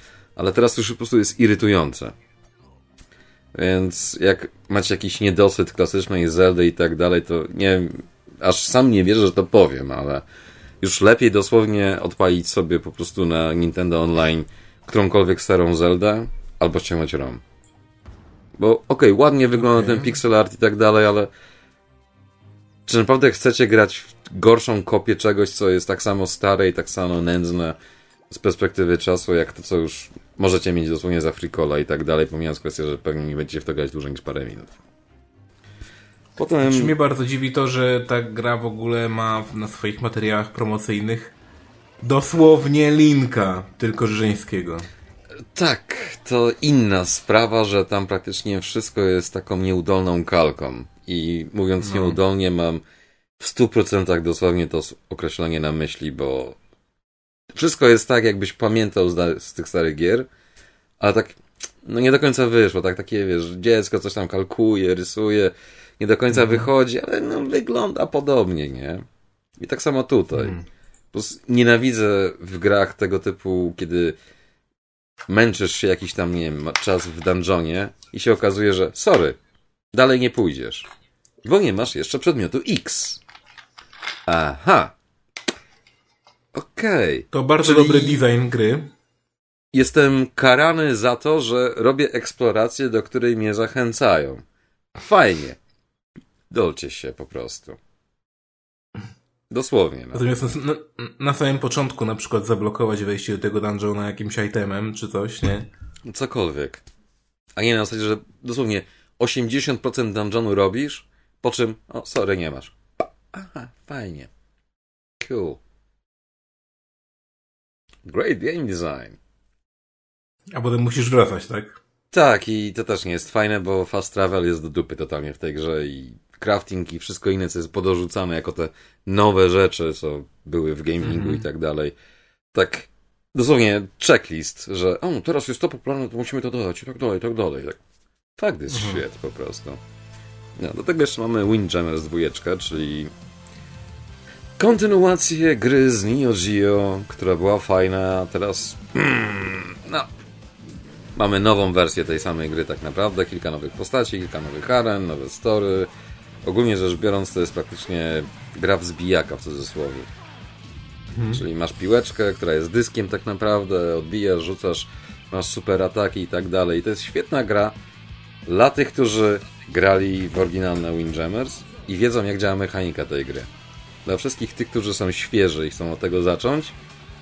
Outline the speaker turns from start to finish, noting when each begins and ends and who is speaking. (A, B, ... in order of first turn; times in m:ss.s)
0:00.4-0:02.2 A
0:03.5-0:10.2 A
0:10.8-0:17.4 A
0:18.6-0:21.3 A
0:19.6-0:20.2 B
0:22.9-0:27.8 A
0:28.3-0:34.8 A
0:36.4-0:36.9 A
0:36.6-0:41.4 B
0:42.0-0:44.9 B
0:45.5-0:52.8 A
0:51.8-0:52.2 B
0:53.4-0:56.6 A
0:57.5-1:00.3 A
1:01.0-1:09.0 A
1:06.3-1:06.7 B
1:09.6-1:10.6 A
1:10.4-1:10.7 B
1:11.1-1:14.2 A
1:15.3-1:19.4 A
1:19.9-1:20.9 A
1:21.4-1:23.2 A
1:24.3-1:24.9 A
1:26.5-1:28.2 A
1:27.3-1:28.9 B
1:29.7-1:34.4 A
1:35.0-1:35.6 A
1:36.5-1:37.8 A
1:39.5-1:40.2 A
1:40.1-1:45.7 B
1:46.1-1:46.8 A
1:47.6-1:54.3 A
1:55.2-1:55.6 A
1:58.0-1:59.2 A
2:00.5-2:01.8 B
2:02.1-2:12.0 A
2:11.0-2:11.4 B
2:12.5-2:17.8 A
2:18.4-2:19.8 A
2:18.7-2:19.0 B
2:20.6-2:23.1 A
2:24.6-2:30.1 A
2:31.2-2:35.9 A
2:36.4-2:40.1 A
2:41.1-2:41.4 B
2:41.3-2:47.8 A
2:48.5-2:53.5 A
2:54.0-2:56.7 A